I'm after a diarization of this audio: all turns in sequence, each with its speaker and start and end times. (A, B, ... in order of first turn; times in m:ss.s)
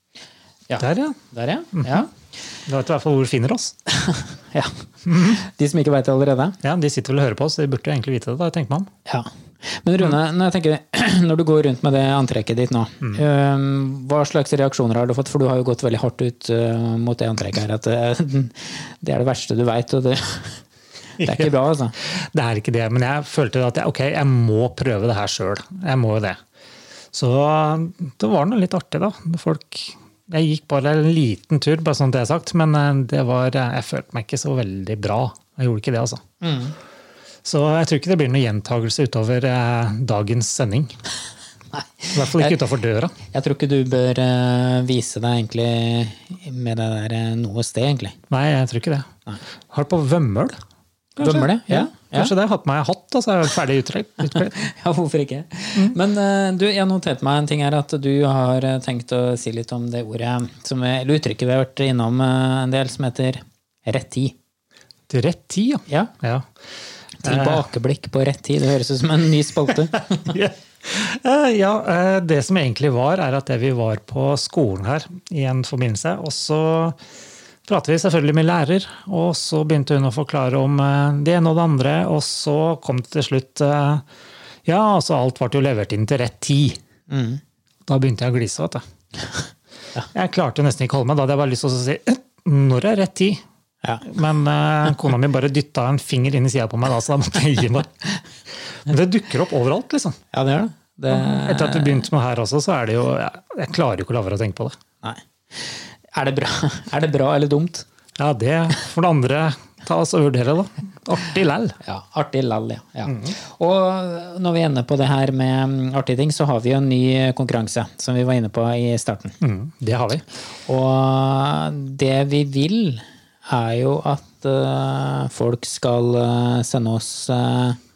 0:00.7-0:02.1 A
0:00.8-0:01.2 B
0:01.8-0:02.0 B
0:02.6-0:03.7 B
0:04.1-0:06.6 A
0:05.1-0:05.4 B
0:06.6-0:08.9 B
0:09.1-0:20.6 A
0:21.2-0:21.5 B
0:21.2-0:22.0 A
0:22.0-0:26.4 B
0:27.1-0:36.2 B
0:36.4-0:36.8 A
0:37.4-0:40.9 B
0:41.7-0:42.6 A
0:42.1-0:43.2 B
0:43.3-0:48.2 A
0:48.3-0:49.1 B
0:49.7-0:50.6 B
0:51.2-0:54.6 B
0:51.2-0:52.3 A
0:54.3-1:04.4 A
1:05.1-1:06.4 B
1:07.2-1:10.4 A
1:07.2-1:07.6 B
1:10.0-1:17.0 B
1:17.7-1:24.0 B
1:24.6-1:26.8 B
1:27.1-1:27.4 A
1:27.9-1:28.8 B
1:30.1-1:33.4 B
1:34.0-1:38.2 B
1:38.9-1:40.2 B
1:40.3-1:42.1 A
1:41.1-1:44.7 B
1:45.0-1:47.8 A
1:48.2-1:51.8 B
1:51.8-1:59.4 A
1:53.1-1:53.3 B
1:59.4-2:00.2 B
2:00.7-2:07.8 A